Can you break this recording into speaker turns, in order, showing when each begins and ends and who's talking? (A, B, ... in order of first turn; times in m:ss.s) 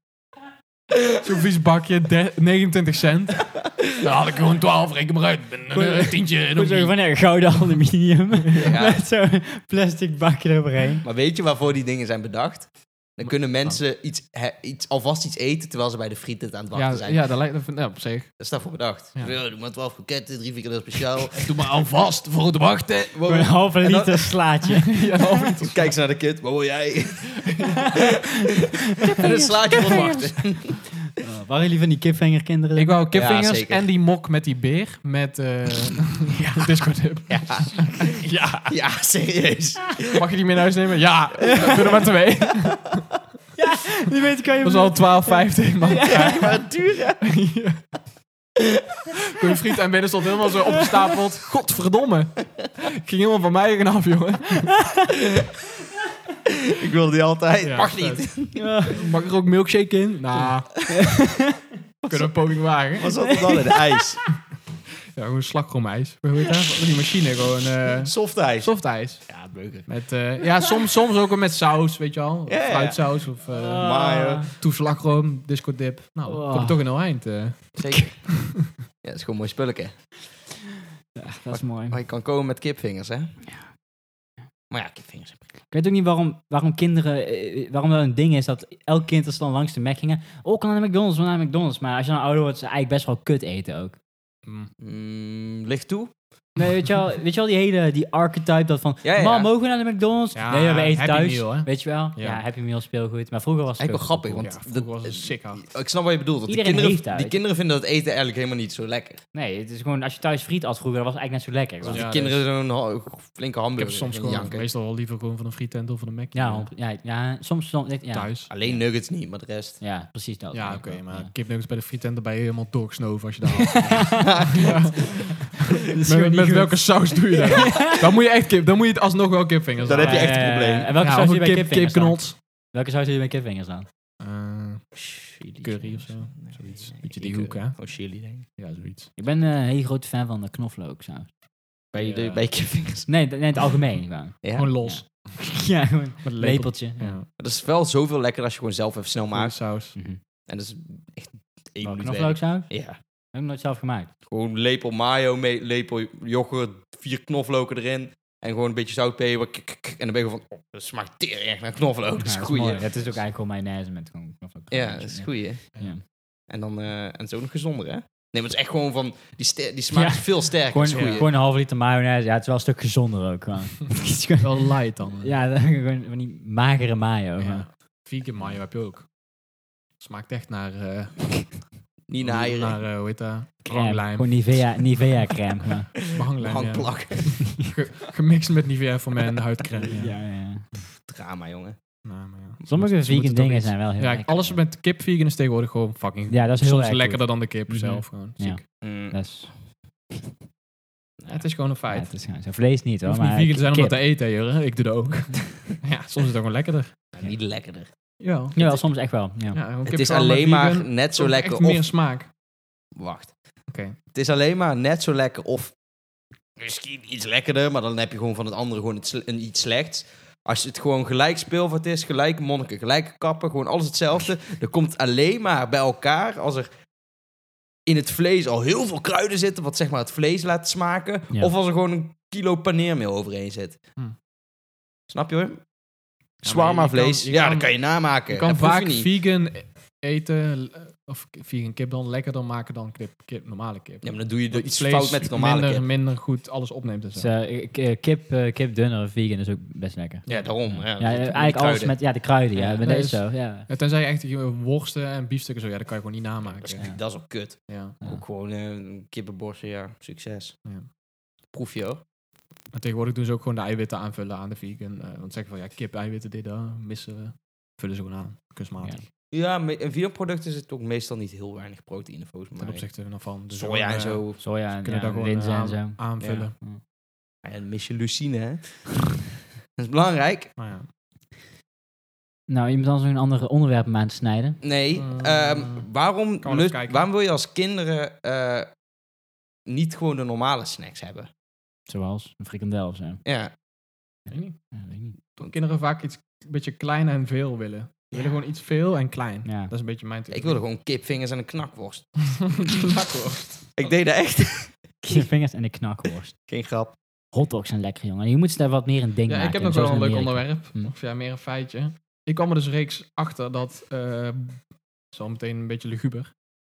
0:01.2-0:07.0 A
0:05.7-0:11.0 B
0:08.6-0:09.1 C
0:11.0-0:17.4 C
0:13.2-0:13.8 A
0:16.7-0:18.5 A
0:18.4-0:21.7 C
0:21.3-0:23.2 A
0:23.1-0:24.6 C
0:23.3-0:25.5 B
0:24.7-0:26.0 A
0:25.6-0:30.9 C
0:29.0-0:30.6 B
0:31.2-0:33.0 B
0:32.8-0:38.7 A
0:33.1-0:33.8 C
0:37.3-0:40.3 C
0:40.1-0:43.0 A
0:43.6-0:46.6 B
0:44.6-0:46.6 A
0:46.0-0:47.2 C
0:47.2-0:47.8 A
0:49.3-0:54.8 A
0:56.5-0:58.7 C
0:57.6-0:58.3 A
0:58.5-0:59.0 B
0:58.9-1:01.0 A
1:01.2-1:01.5 B
1:02.0-1:04.3 C
1:02.1-1:03.2 A
1:03.3-1:03.6 B
1:05.1-1:13.8 A
1:08.0-1:09.9 C
1:12.5-1:14.5 C
1:13.5-1:14.5 B
1:14.5-1:18.6 A
1:16.2-1:16.8 B
1:17.7-1:20.1 C
1:21.1-1:22.0 B
1:21.5-1:23.4 C
1:24.7-1:25.4 C
1:25.7-1:34.0 B
1:34.4-1:34.7 A
1:34.8-1:36.1 C
1:36.6-1:44.5 B
1:39.0-1:39.5 C
1:40.3-1:42.4 A
1:43.8-1:49.2 C
1:44.4-1:45.6 A
1:46.5-1:47.4 B
1:49.3-1:52.1 B
1:51.8-1:54.7 C
1:51.9-1:52.4 A
1:53.8-1:56.7 A
1:56.3-1:58.9 B
1:58.1-1:58.5 A
1:58.5-1:59.8 C
1:59.8-2:01.3 B
2:00.5-2:12.4 A
2:03.7-2:04.2 B
2:04.1-2:05.2 C
2:05.9-2:08.1 B
2:09.8-2:10.9 C
2:09.9-2:13.9 B
2:14.2-2:15.0 A
2:14.9-2:18.5 C
2:15.6-2:19.1 A
2:19.2-2:21.3 B
2:21.9-2:23.2 C
2:21.9-2:22.4 A
2:23.1-2:27.2 B
2:24.4-2:24.7 C
2:24.5-2:25.3 A
2:26.2-2:27.3 A
2:27.4-2:29.6 C
2:29.3-2:30.0 A
2:30.5-2:33.0 C
2:31.8-2:34.1 B
2:34.3-2:43.2 C
2:42.2-2:46.0 B
2:44.7-2:45.7 C
2:46.5-2:51.3 C
2:49.9-2:57.7 B
2:50.9-2:51.3 A
2:54.4-2:55.3 A
2:57.4-2:59.1 A
3:00.0-3:04.6 A
3:02.1-3:02.8 C
3:03.6-3:05.9 B
3:06.0-3:07.5 C
3:06.1-3:10.2 A
3:07.4-3:07.7 B
3:09.9-3:10.7 B
3:11.0-3:11.8 C
3:12.0-3:18.6 A
3:12.6-3:14.6 B
3:16.3-3:19.7 B
3:18.8-3:19.3 C
3:21.2-3:21.4 C
3:21.3-3:22.1 A
3:21.9-3:24.0 B
3:23.0-3:26.9 A
3:27.1-3:27.9 C
3:28.2-3:28.6 A
3:28.5-3:29.6 B
3:28.6-3:28.8 C
3:29.5-3:32.3 A
3:29.8-3:31.9 C
3:33.0-3:33.4 C
3:33.7-3:34.0 A
3:34.1-3:35.7 C
3:36.6-3:46.7 C
3:47.9-3:53.8 C
3:55.1-3:55.6 C
3:56.4-3:59.1 C
3:56.4-4:07.3 A
4:04.0-4:05.8 C
4:07.1-4:13.7 B
4:10.3-4:12.0 C
4:12.6-4:17.0 A
4:16.6-4:20.6 C
4:17.7-4:18.0 A
4:21.5-4:22.0 C
4:22.7-4:29.1 A
4:29.3-4:32.9 C
4:32.6-4:36.5 A
4:33.5-4:34.4 C
4:34.4-4:36.8 B
4:36.2-4:36.5 C
4:37.4-4:39.2 C
4:39.8-4:40.5 C
4:40.6-4:40.9 A
4:42.5-4:44.6 B
4:44.6-4:48.7 C
4:45.0-4:45.9 A
4:46.4-4:47.1 A
4:49.6-4:51.3 C
4:51.9-4:53.2 B
4:53.2-4:53.5 C
4:54.3-4:54.6 A
4:54.7-4:55.2 B
4:55.3-5:00.6 A
4:59.4-4:59.7 B
5:00.3-5:02.8 C
5:02.5-5:03.9 A
5:03.7-5:05.2 C
5:05.0-5:06.4 B
5:06.5-5:07.0 C
5:07.3-5:10.9 B
5:09.3-5:16.3 A